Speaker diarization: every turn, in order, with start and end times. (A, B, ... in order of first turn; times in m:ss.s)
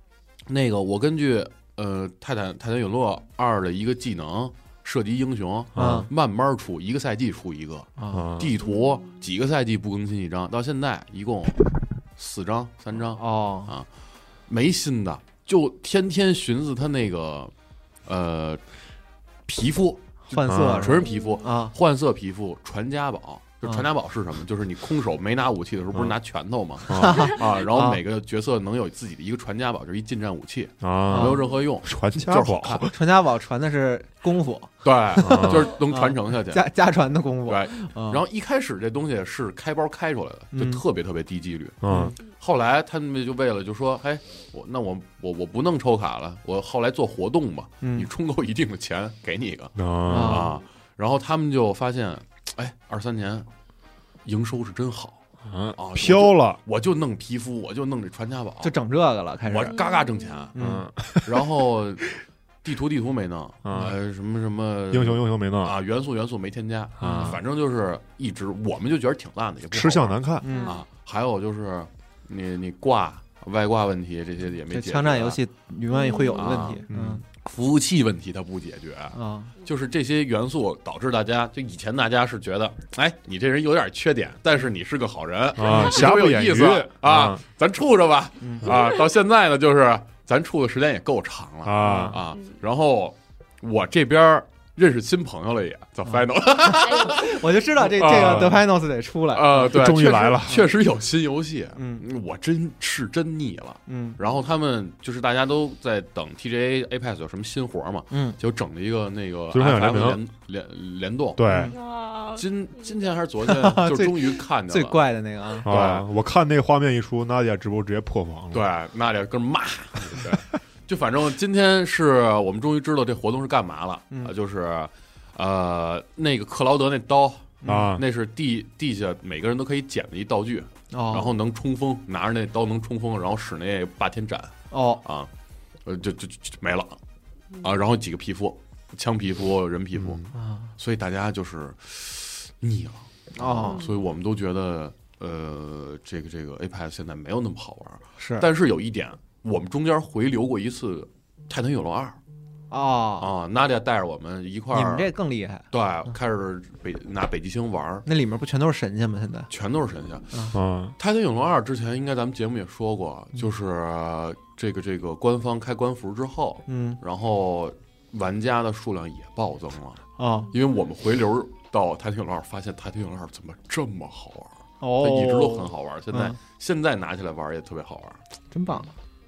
0:00.5-0:13.9 A
0:05.7-0:06.1 B
0:05.8-0:06.1 C
0:08.0-0:08.3 C
0:08.1-0:08.6 B
0:08.6-0:09.1 D
0:13.2-0:13.7 C
0:14.5-0:17.5 A
0:18.0-0:18.6 A
0:19.4-0:32.9 A
0:20.3-0:21.7 C
0:20.5-0:21.0 B
0:21.0-0:21.4 D
0:26.9-0:27.3 B
0:27.0-0:28.0 C
0:30.8-0:33.0 B
0:31.1-0:31.4 C
0:32.9-0:38.2 C
0:34.8-0:36.6 A
0:35.2-0:35.8 B
0:37.4-0:53.5 A
0:40.5-0:40.8 C
0:41.8-0:42.1 B
0:41.9-0:42.1 C
0:47.8-0:48.1 C
0:49.8-0:50.5 B
0:50.1-0:50.5 C
0:54.2-0:55.2 A
0:55.4-0:56.6 B
0:55.7-0:58.7 A
0:58.6-0:59.8 C
0:59.4-1:00.6 A
0:59.7-1:00.4 D
1:00.5-1:00.9 C
1:00.6-1:01.5 B
1:01.2-1:02.1 A
1:02.6-1:15.4 A
1:03.6-1:04.0 B
1:04.9-1:05.8 B
1:07.0-1:07.4 B
1:07.0-1:07.4 C
1:09.7-1:10.5 B
1:10.4-1:10.8 C
1:10.5-1:10.8 D
1:14.7-1:17.2 C
1:15.9-1:16.8 D
1:16.3-1:16.8 A
1:16.9-1:17.2 B
1:17.3-1:38.6 A
1:19.1-1:19.5 C
1:25.5-1:27.4 B
1:28.4-1:28.7 C
1:31.6-1:32.2 B
1:31.8-1:32.2 C
1:36.1-1:39.8 C
1:36.9-1:37.1 D
1:38.0-1:38.6 B
1:39.3-1:51.4 A
1:39.5-1:40.7 B
1:41.8-1:42.0 C
1:43.9-1:44.2 C
1:48.1-1:48.4 C
1:49.5-1:50.2 B
1:51.3-1:51.7 B
1:51.5-1:51.7 C
1:51.7-1:53.0 D
1:52.3-1:55.0 A
1:53.4-1:55.7 C
1:55.6-1:56.0 A
1:55.6-1:58.7 B
1:58.5-2:15.3 A
2:07.6-2:07.9 C
2:07.6-2:08.0 B
2:10.9-2:11.3 C
2:14.7-2:15.0 C
2:15.8-2:17.0 A
2:17.6-2:32.2 A
2:20.3-2:20.7 C
2:23.4-2:23.8 C
2:23.6-2:24.0 D
2:28.2-2:28.5 C
2:32.7-2:33.3 C
2:33.2-2:35.1 A
2:34.7-2:35.6 C
2:35.7-2:38.0 A
2:38.0-2:39.5 C
2:39.5-2:58.2 A
2:40.5-2:41.0 B
2:46.7-2:47.0 C
2:50.2-2:50.5 C
2:54.8-2:56.4 C
2:58.5-2:58.9 C